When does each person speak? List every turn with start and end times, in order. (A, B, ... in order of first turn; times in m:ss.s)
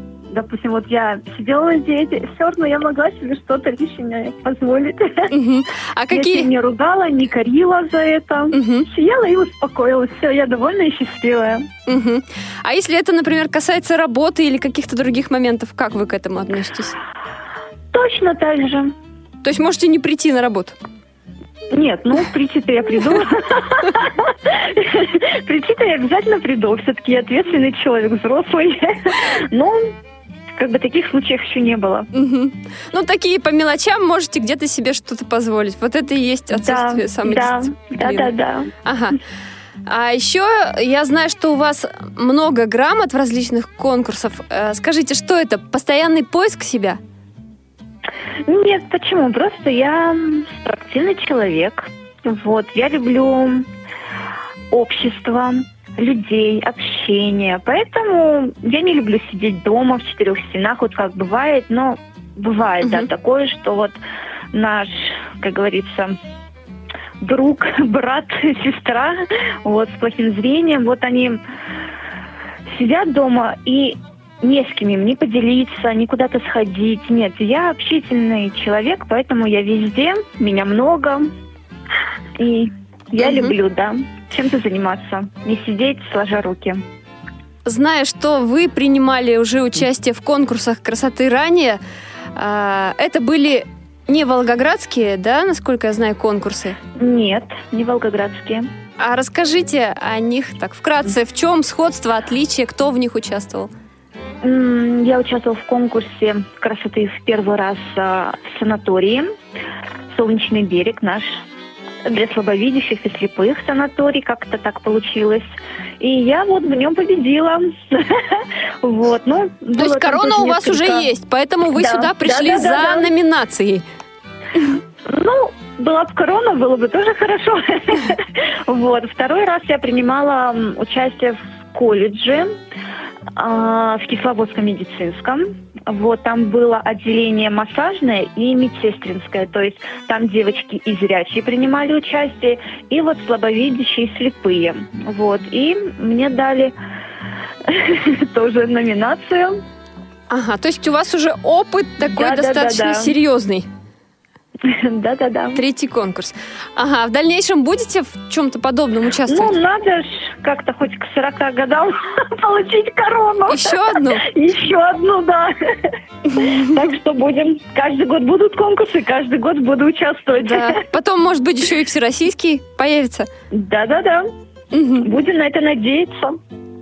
0:00.3-0:05.3 A
0:05.3-0:06.5 B
0:06.1-0:11.7 A
0:08.5-0:08.9 B
0:11.9-0:17.0 B
0:17.9-0:18.9 A
0:19.4-0:20.8 B
0:21.7-0:29.9 A
0:30.6-0:32.1 A
0:32.1-0:38.3 B
0:36.5-0:38.7 A
0:38.8-0:39.2 B
0:39.9-0:47.0 B
0:48.5-0:53.7 A
0:54.7-1:03.9 A
1:02.8-1:03.1 B
1:04.5-1:06.2 A
1:07.2-1:11.4 A
1:12.7-1:21.3 A
1:22.4-1:26.8 A
1:23.2-1:23.6 B
1:27.6-1:31.8 B
1:32.4-1:36.8 B
1:37.0-1:38.7 A
1:39.0-1:43.7 B
1:44.4-1:49.3 A
1:50.1-1:51.4 A
1:52.0-1:55.5 A
1:56.0-2:01.1 A
1:59.8-2:03.8 B
2:01.7-2:03.1 A
2:05.1-2:12.6 A
2:13.4-2:26.8 A
2:27.7-2:29.6 A
2:30.3-2:33.7 B
2:32.0-2:33.2 A
2:34.6-2:35.6 A
2:35.6-2:39.6 B
2:39.3-2:50.8 A
2:43.5-2:44.2 B
2:50.4-2:53.3 B
2:53.5-2:54.3 A
2:54.7-2:55.1 B
2:55.0-2:56.4 A